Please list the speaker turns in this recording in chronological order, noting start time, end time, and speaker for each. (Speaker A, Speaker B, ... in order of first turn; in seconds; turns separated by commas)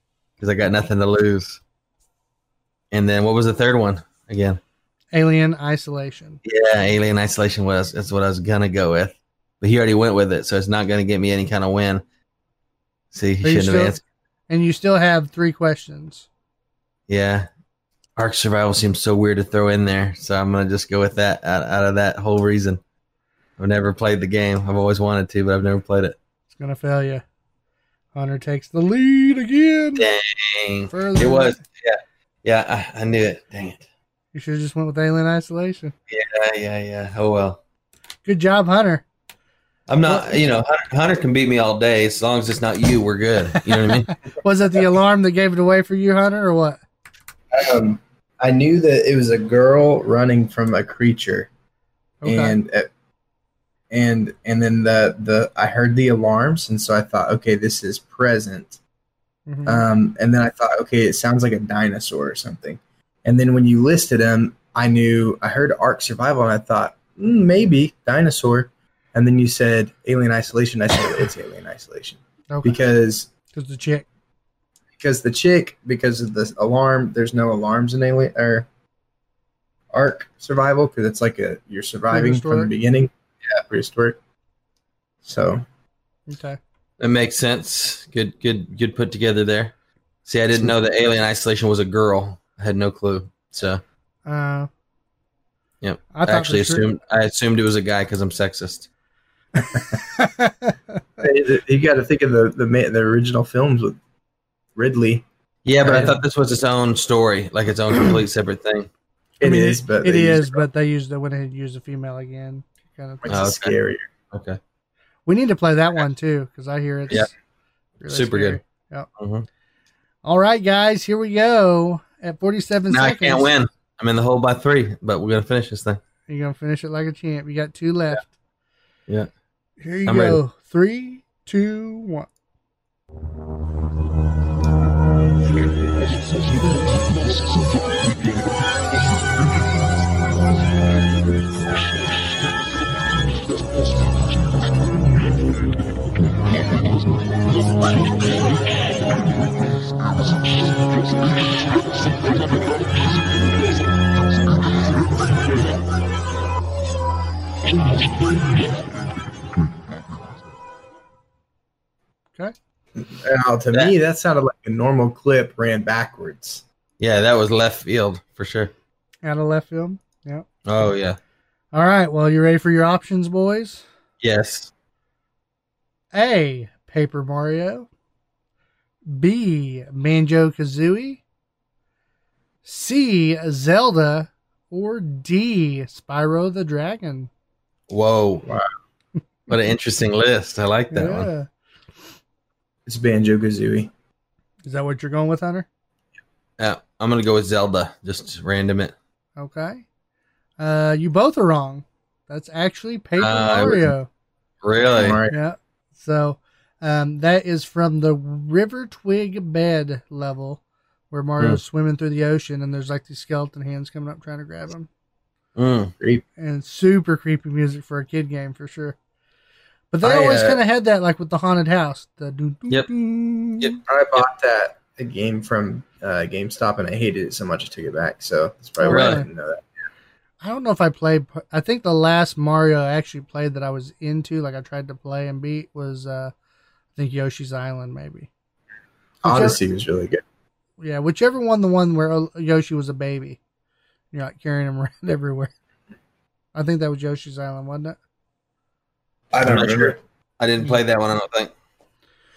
Speaker A: 0.4-1.6, Speaker A: 2.9-4.6, Speaker B: 5.1-6.4, Speaker A: 6.4-12.0, Speaker A: 13.1-14.0, Speaker B: 13.4-16.3, Speaker A: 17.1-17.5, Speaker A: 18.2-22.8, Speaker A: 23.6-26.1, Speaker B: 26.5-27.2, Speaker B: 28.1-30.1, Speaker A: 30.0-33.8, Speaker B: 30.9-31.6, Speaker B: 34.3-35.9, Speaker A: 36.1-37.6, Speaker B: 38.2-39.0, Speaker A: 39.9-44.1, Speaker B: 40.0-40.5, Speaker B: 44.4-46.8, Speaker C: 47.5-51.5, Speaker B: 52.2-52.5, Speaker C: 52.2-52.9, Speaker C: 53.9-58.8, Speaker B: 59.5-59.8, Speaker C: 59.6-73.3, Speaker B: 72.5-72.8, Speaker B: 73.5-74.0, Speaker C: 75.0-78.7, Speaker C: 79.9-84.2, Speaker B: 82.1-82.7, Speaker C: 85.2-85.6, Speaker B: 86.3-86.6, Speaker A: 87.0-89.7, Speaker A: 90.2-93.8, Speaker B: 94.2-94.7, Speaker A: 95.8-98.9, Speaker B: 96.1-96.9, Speaker B: 100.2-100.8, Speaker C: 101.2-104.0, Speaker C: 104.8-105.2, Speaker A: 105.6-108.9, Speaker C: 105.8-106.2, Speaker C: 109.4-110.6, Speaker B: 109.4-113.3, Speaker C: 113.2-114.1, Speaker A: 113.3-113.7, Speaker A: 114.3-114.6, Speaker B: 115.2-117.3, Speaker B: 118.0-119.1, Speaker A: 118.1-118.6, Speaker A: 119.2-119.5, Speaker B: 120.2-123.5, Speaker A: 122.9-126.0, Speaker B: 126.3-128.3, Speaker B: 129.8-132.3, Speaker A: 130.1-130.4, Speaker C: 163.0-166.6, Speaker A: 167.0-168.7, Speaker B: 169.2-170.5, Speaker A: 170.7-171.2, Speaker B: 171.7-173.8, Speaker A: 174.2-174.7, Speaker B: 176.1-177.9, Speaker B: 179.1-181.2, Speaker B: 182.6-187.3, Speaker A: 187.9-188.4, Speaker A: 189.5-191.3, Speaker B: 190.9-191.5, Speaker C: 192.8-193.9, Speaker B: 194.7-195.7, Speaker A: 196.6-198.9, Speaker B: 199.4-199.8, Speaker B: 200.6-204.1, Speaker A: 203.2-203.9, Speaker A: 204.6-205.2, Speaker C: 204.8-205.4, Speaker B: 205.3-214.9, Speaker A: 215.6-215.9, Speaker B: 216.4-218.9, Speaker B: 219.9-223.8, Speaker C: 220.0-220.6, Speaker C: 223.9-229.7, Speaker B: 228.8-229.3, Speaker A: 228.9-229.2, Speaker B: 230.4-236.3, Speaker B: 236.9-238.3, Speaker B: 239.2-239.6, Speaker C: 239.2-240.2, Speaker B: 240.8-243.4, Speaker B: 244.1-245.5, Speaker B: 246.5-247.9, Speaker C: 249.3-250.0, Speaker A: 249.4-251.5